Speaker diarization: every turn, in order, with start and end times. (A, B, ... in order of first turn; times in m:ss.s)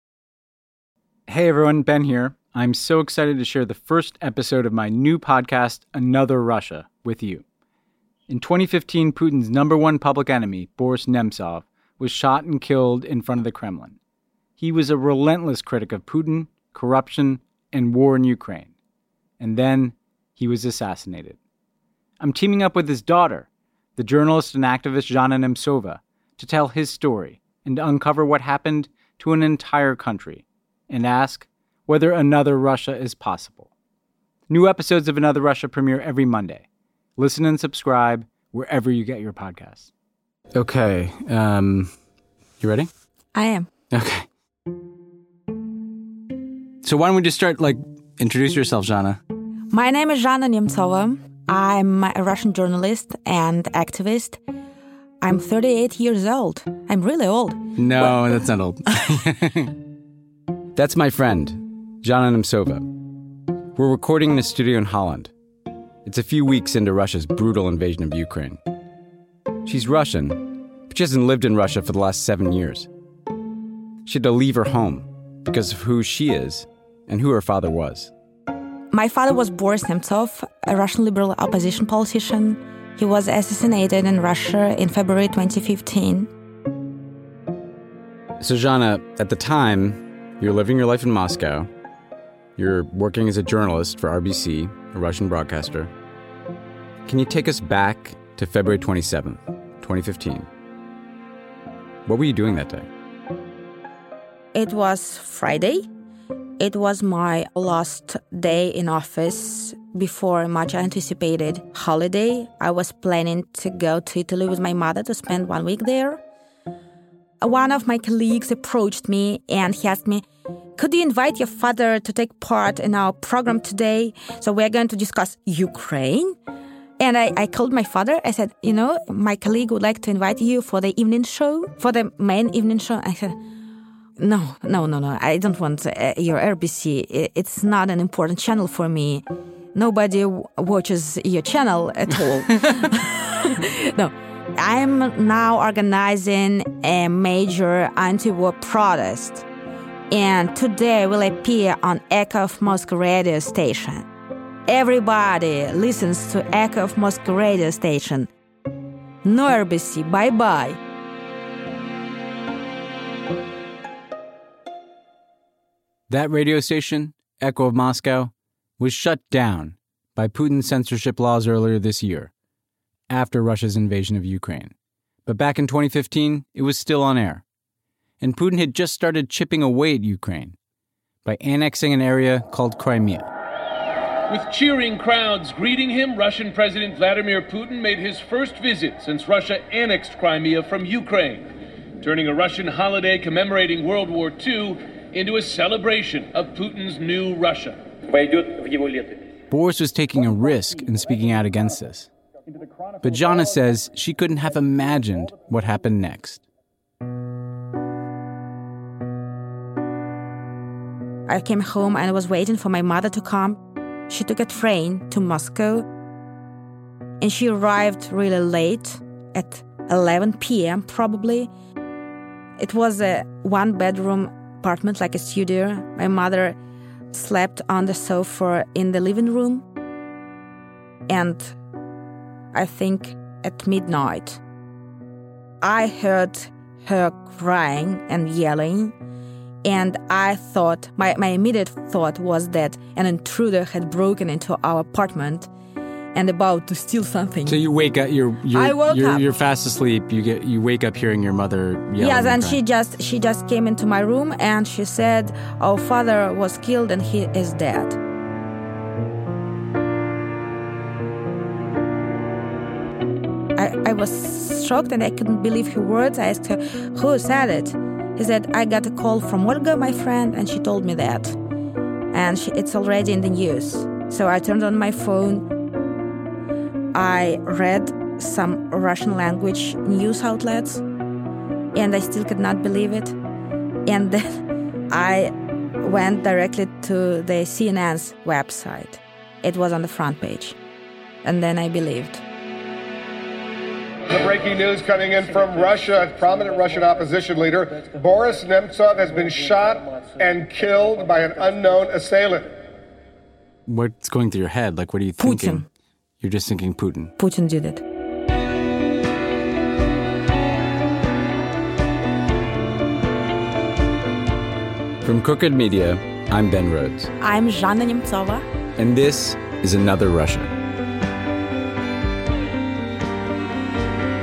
0:01.3-0:07.4 A
0:08.3-0:14.0 A
0:14.6-0:18.7 A
0:19.4-0:21.4 A
0:22.2-0:33.7 A
0:34.5-0:36.6 A
0:37.2-0:39.9 A
0:40.5-0:41.9 A
0:42.6-0:42.9 A
0:43.3-0:43.7 B
0:43.9-0:44.3 A
0:46.8-0:49.2 A
0:49.7-0:54.4 B
0:55.2-0:58.4 B
0:57.8-0:59.7 A
1:00.8-1:02.9 A
1:03.7-1:05.3 A
1:06.0-1:08.6 A
1:09.6-1:12.9 A
1:14.0-1:18.1 A
1:18.9-1:26.3 B
1:28.4-1:31.7 A
1:32.6-1:35.9 A
1:37.0-1:40.5 A
1:42.0-1:42.9 A
1:44.5-1:45.8 B
1:46.6-1:56.2 B
1:57.4-2:00.2 B
2:00.8-2:06.4 B
2:07.0-2:13.4 B
2:14.2-2:19.2 B
2:19.7-2:29.4 B
2:30.1-2:34.1 B
2:34.7-2:38.3 B
2:39.2-2:40.8 B
2:46.1-2:52.3 A
2:53.1-2:54.7 A
2:55.2-2:57.4 A
2:58.2-3:00.6 A
3:01.2-3:03.3 A
3:04.3-3:11.5 C
3:12.0-3:17.8 C
3:19.5-3:22.1 A
3:23.0-3:26.4 A
3:31.3-3:35.8 B
3:37.2-3:41.5 B
3:42.6-3:46.6 B
3:47.1-3:49.6 B
3:51.1-3:51.6 B
3:52.5-3:54.4 B
3:55.6-3:58.9 B
3:59.6-4:05.5 B
4:06.1-4:07.6 B
4:07.4-4:12.6 A
4:08.5-4:09.3 B
4:12.0-4:18.0 B
4:23.6-4:31.4 B
4:32.1-4:35.5 B
4:36.9-4:40.8 B
4:41.7-4:43.2 B
4:43.8-4:44.3 B
4:44.9-4:50.6 B
4:51.2-4:52.2 B
4:54.1-5:02.5 D
5:03.7-5:05.6 A
5:05.2-5:05.6 B
5:06.2-5:07.1 A
5:07.2-5:07.8 B
5:15.0-5:17.1 A
5:17.2-5:18.4 B
5:18.8-5:20.6 A